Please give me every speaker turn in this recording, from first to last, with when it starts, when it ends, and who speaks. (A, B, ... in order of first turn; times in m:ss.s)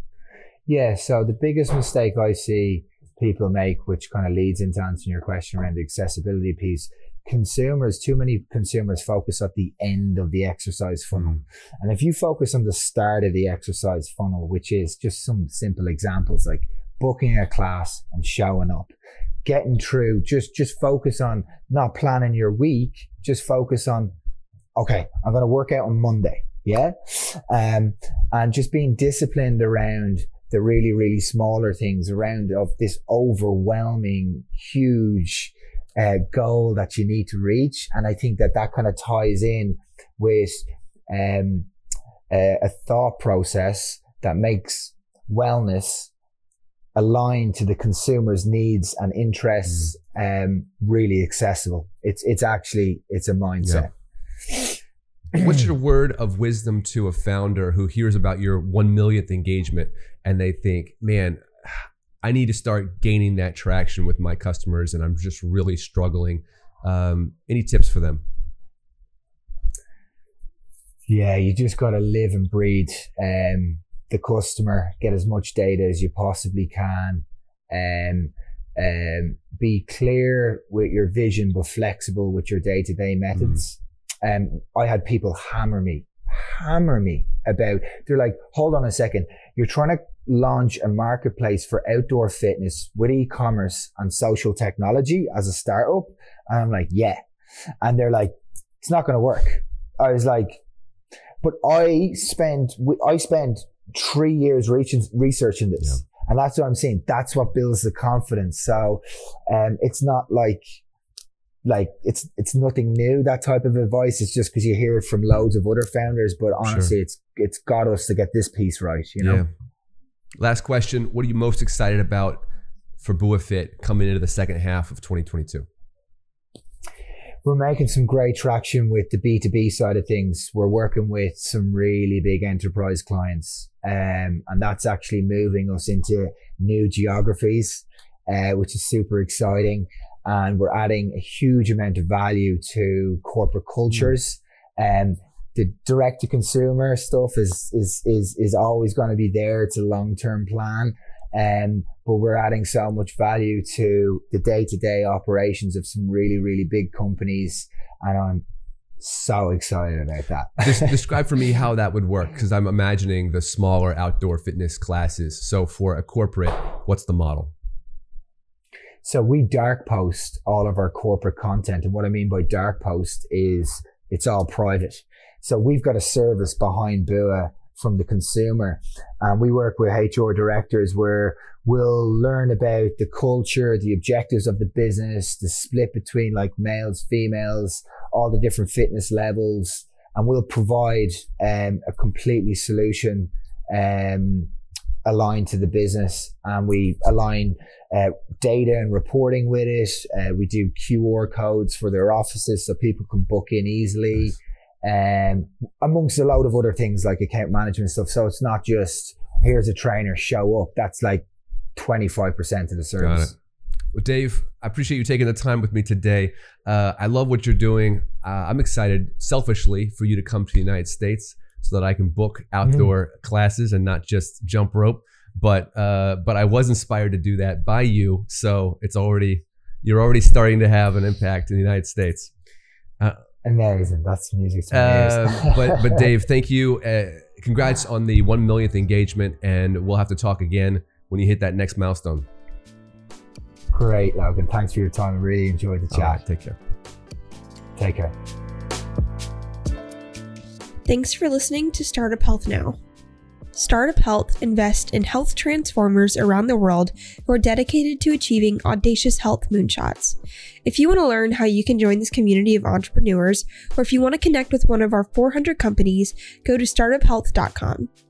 0:00.7-0:18.9 A
0:19.4-0:24.1 A
0:24.8-0:41.7 A
0:42.3-0:46.1 A
0:46.9-0:53.9 A
0:55.3-1:08.2 B
1:11.1-1:37.2 A
1:37.8-1:40.6 A
1:41.4-1:50.6 A
1:51.6-1:59.5 A
1:56.6-1:56.9 B
1:59.2-1:59.5 B
2:00.4-2:02.4 B
2:03.0-2:05.7 B
2:07.4-2:38.4 A
2:39.0-2:41.0 A
2:40.6-2:47.5 B
2:49.0-3:14.5 A
3:15.0-3:31.2 A
3:31.8-3:33.3 A
3:33.0-3:33.3 B
3:33.9-3:52.3 B
3:53.4-3:56.0 A
3:54.7-4:02.2 B
4:03.7-4:06.2 A
4:05.9-4:06.6 B
4:07.8-4:08.1 A
4:10.8-4:12.8 C
4:13.5-4:27.9 C